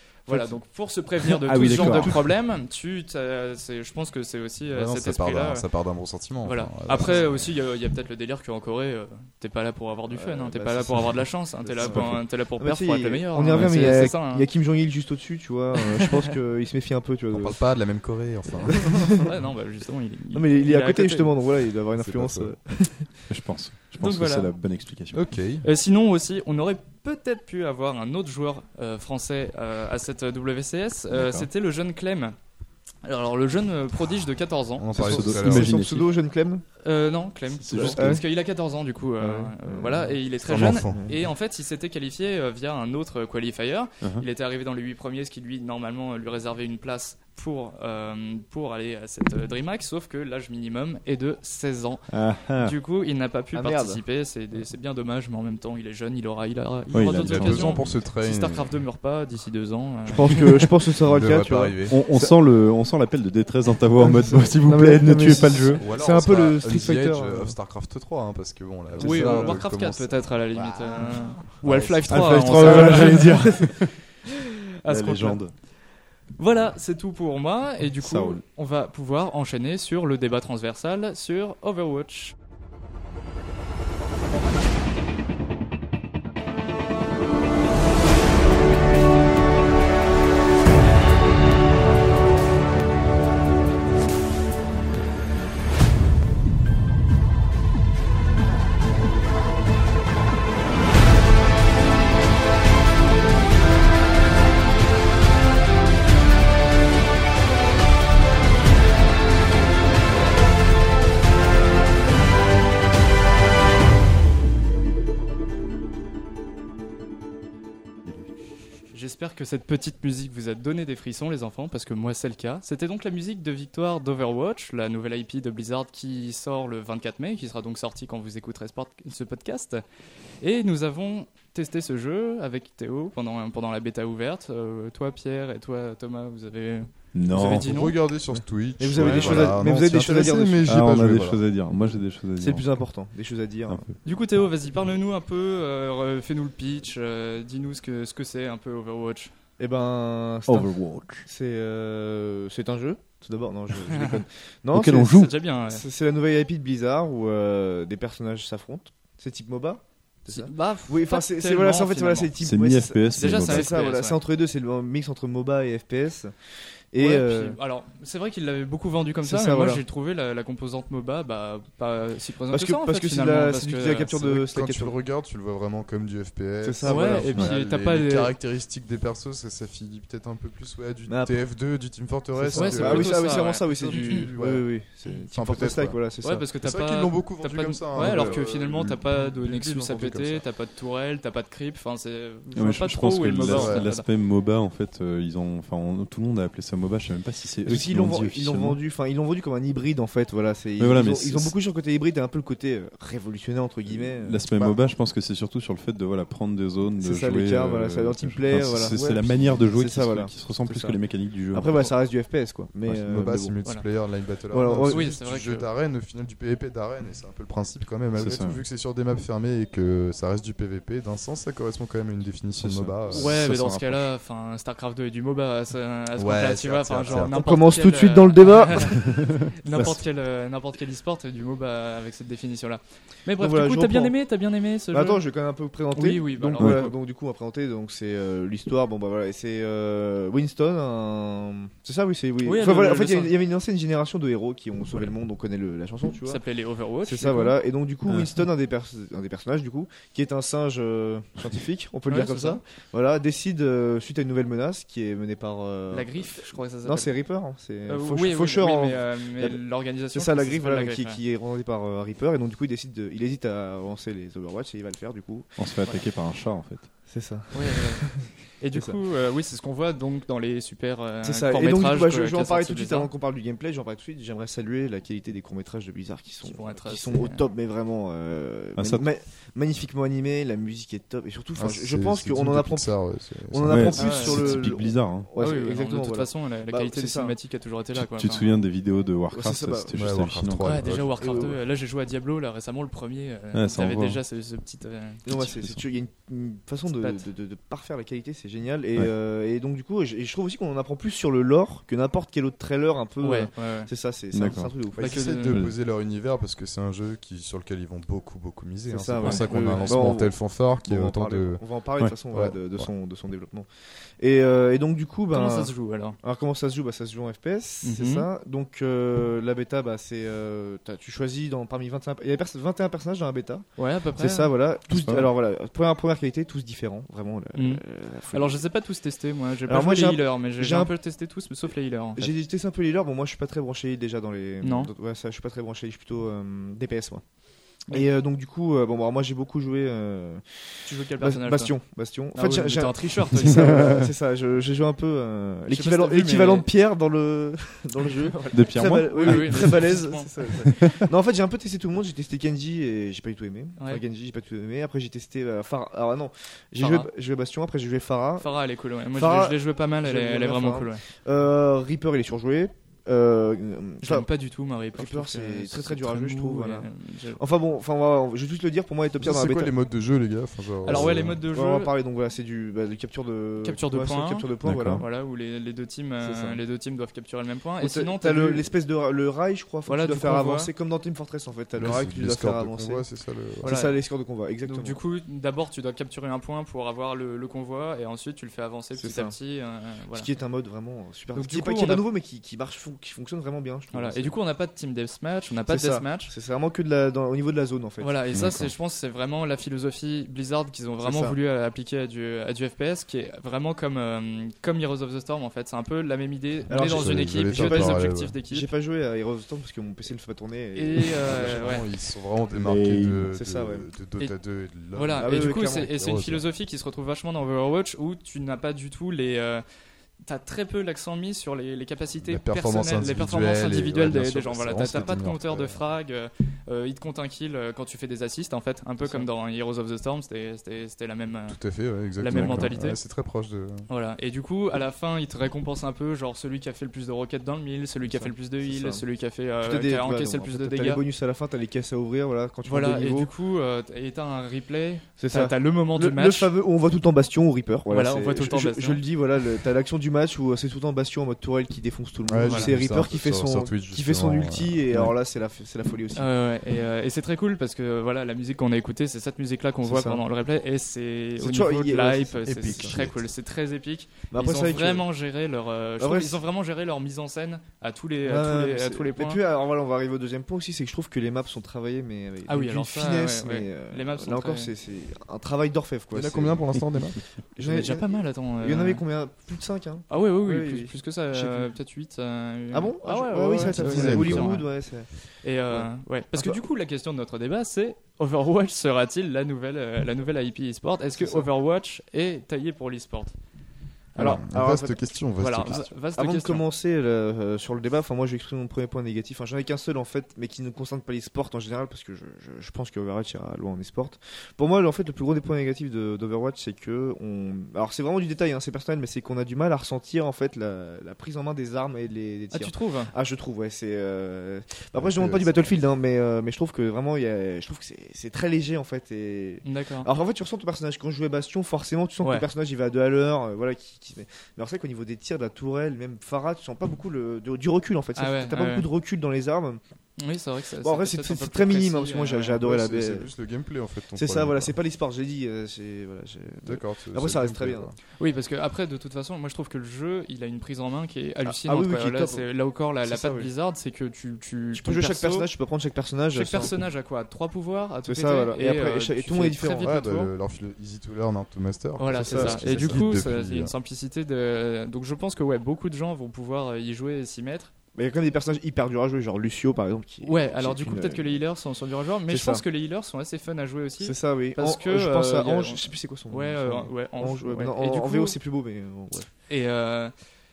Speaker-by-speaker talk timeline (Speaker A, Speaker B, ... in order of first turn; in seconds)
Speaker A: 0.2-5.7, 6.4-14.5, 15.8-16.2, 19.2-21.3, 24.0-24.5, 25.6-32.4, 33.0-34.9, 36.8-60.7, 69.0-73.9, 74.8-75.4, 76.4-82.4, 118.9-129.8, 130.4-138.0, 139.0-139.6, 144.0-149.3, 153.9-154.2, 155.0-155.8, 160.3-162.3, 163.2-164.2, 167.0-174.4, 176.8-178.3, 182.5-184.3, 186.2-194.1, 214.9-215.7, 223.1-235.2, 235.9-236.9, 242.4-243.3, 246.3-247.6, 252.1-252.6, 255.9-257.1, 257.9-261.2, 267.5-273.1, 276.4-277.4, 283.9-284.6, 285.4-288.5, 290.6-295.2, 297.0-297.3, 303.2-303.9, 305.0-305.6, 309.2-310.0, 315.3-316.2, 317.8-318.3, 323.8-324.5, 327.6-332.3, 334.6-334.9, 340.9-341.7, 342.4-344.0, 345.7-346.7, 348.0-350.3, 353.8-354.0, 356.8-357.1, 358.4-361.0, 364.0-367.4, 370.8-371.9, 373.6-378.7, 379.9-380.7, 383.6-384.0, 384.6-390.3, 391.3-392.1, 393.9-396.3, 398.0-408.7, 410.7-411.9, 414.9-419.6, 420.2-431.6, 432.2-433.0, 433.9-441.0, 442.6-446.5, 447.9-449.0, 456.1-469.4, 472.5-474.7, 477.6-479.0, 480.1-484.7, 485.4-493.4, 495.4-496.6, 512.5-513.1, 519.6-520.1, 522.2-522.5, 528.1-528.9, 530.2-532.6, 538.2-545.5, 546.3-550.3, 552.0-557.7, 560.2-568.4, 569.5-570.1
Speaker B: 0.3-0.6, 1.5-2.2, 7.0-7.2, 10.1-17.6, 18.7-19.1, 20.3-23.2, 35.0-36.6, 37.8-38.2, 39.2-41.2, 53.5-54.0, 60.1-62.4, 64.0-67.5, 69.0-69.6, 71.0-71.3, 72.5-73.6, 138.3-140.7, 142.4-143.8, 149.6-166.3, 166.9-167.6, 169.2-169.8, 172.5-174.9, 176.6-177.4, 181.1-181.4, 182.3-186.5, 187.9-188.4, 197.7-204.7, 207.0-211.0, 211.5-213.6, 214.5-215.1, 227.1-229.3, 233.4-234.2, 234.9-246.4, 247.0-265.5, 267.1-269.0, 271.2-287.4, 289.3-290.0, 291.2-291.5, 295.2-305.2, 308.9-313.7, 314.2-323.7, 324.2-328.6, 329.6-330.9, 332.1-337.2, 337.9-340.4, 341.2-358.5, 359.1-364.3, 364.9-369.7, 370.9-375.1, 376.2-376.6, 377.8-383.1, 383.6-385.0, 388.9-389.4, 390.1-394.4, 395.7-398.1, 401.0-401.4, 406.7-411.8, 413.2-413.9, 415.2-416.0, 438.1-439.0, 439.6-443.3, 445.2-456.3, 459.8-460.2, 461.4-463.0, 464.3-465.1, 466.0-466.4, 468.2-476.6, 477.6-481.7, 482.7-485.1, 485.7-486.6, 491.2-491.5, 494.1-495.0, 495.6-529.8, 530.8-533.3, 534.1-537.9, 541.4-542.4, 543.0-543.5, 544.7-546.8, 548.1-550.0, 552.2-553.1, 557.9-561.3, 562.3-562.6, 564.0-569.3
Speaker C: 1.4-2.2, 13.5-13.9, 23.3-25.3, 31.1-31.5, 35.0-36.1, 37.6-38.2, 52.1-52.7, 56.9-57.9, 61.9-65.8, 72.0-74.0, 74.9-75.5, 78.0-78.4, 137.1-137.8, 140.6-142.8, 143.7-144.0, 150.5-151.3, 154.7-155.3, 162.4-163.8, 192.6-198.8, 200.8-201.5, 204.0-211.9, 218.2-218.6, 222.6-224.1, 229.0-230.0, 248.1-248.4, 265.6-266.9, 278.8-279.1, 283.7-285.3, 287.9-291.0, 293.5-294.2, 295.3-295.8, 304.3-304.7, 305.5-305.7, 324.9-325.3, 343.5-344.0, 348.5-349.9, 350.6-351.0, 374.6-375.0, 398.3-398.7, 412.5-413.2, 432.3-432.7
Speaker D: 4.7-7.5, 17.3-19.2, 22.0-22.5, 25.1-25.7, 34.8-35.7, 40.4-41.2, 57.1-58.8, 61.0-62.0, 65.8-71.0, 71.6-72.0, 137.5-141.4, 174.3-184.7, 185.3-186.0, 186.6-190.4, 193.4-193.9, 213.1-223.4, 226.2-227.4, 281.6-284.1, 289.9-291.6, 305.0-311.6, 312.3-312.9, 369.2-371.4, 381.8-383.8, 406.8-408.4, 411.2-416.4, 422.3-425.8, 431.5-433.9, 452.3-455.1, 462.4-463.2, 476.1-477.2, 483.7-484.6, 494.1-495.9, 515.0-515.6, 532.6-534.7, 536.6-538.0, 549.8-553.7